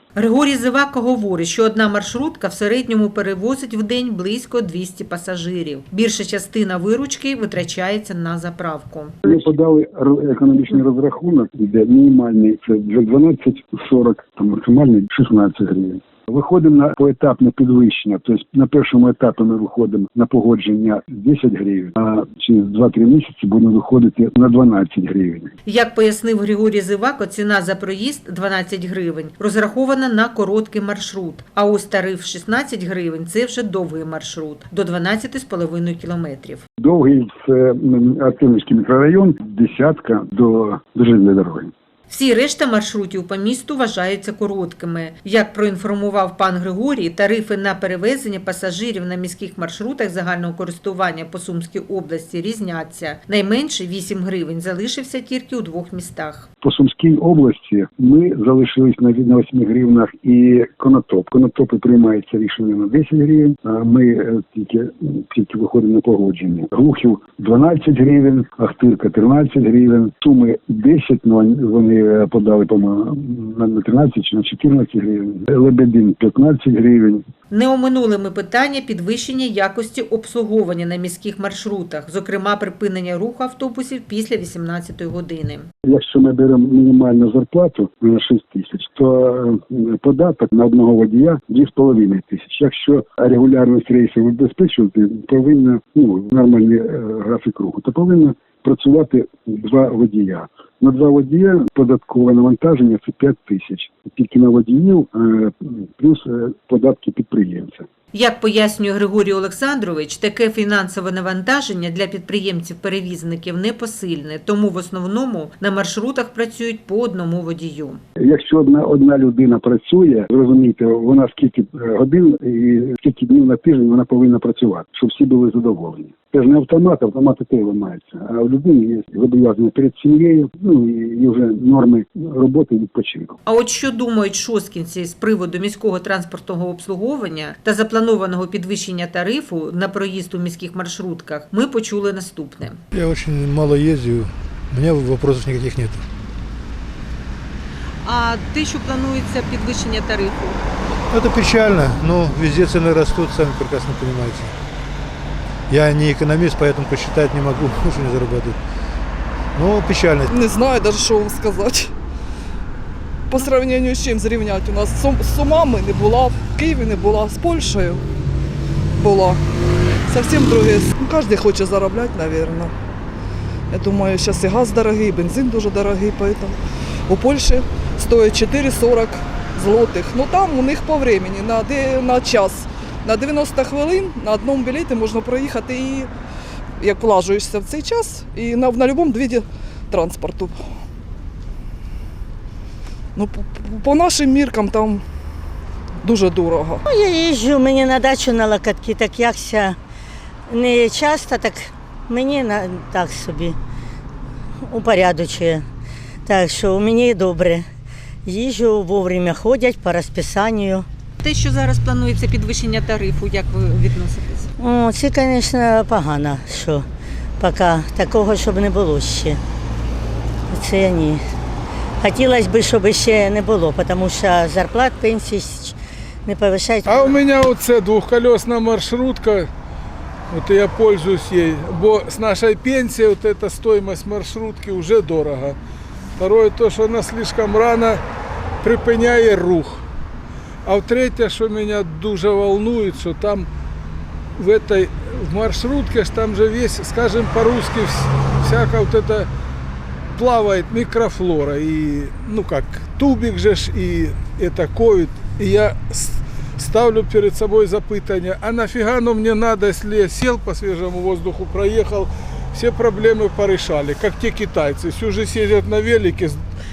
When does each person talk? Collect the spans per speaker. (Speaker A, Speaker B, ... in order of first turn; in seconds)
Speaker A: 0.1-9.2, 25.6-36.6, 42.1-56.5, 77.5-85.7, 108.1-118.0, 133.5-142.8, 148.0-150.6, 211.2-214.5
Speaker B: 9.3-25.5, 36.8-41.7, 56.6-77.2, 85.8-107.9, 118.2-133.4
Speaker C: 142.9-146.1, 151.1-154.6, 155.7-158.6, 159.6-160.3
Speaker D: 160.3-161.9, 163.3-168.0, 169.0-169.4, 170.1-172.7, 173.7-176.6, 177.1-186.1, 186.8-190.6, 193.2-195.0, 196.0-196.8
Speaker E: 196.8-199.8, 200.5-203.6, 204.6-205.7, 206.3-207.7, 208.3-210.9, 214.6-216.9, 217.4-219.4, 220.5-221.2, 222.0-227.2
Speaker F: 226.9-229.5, 230.3-235.6, 236.2-238.0, 238.6-239.8, 240.7-243.5, 244.4-249.3, 250.2-266.4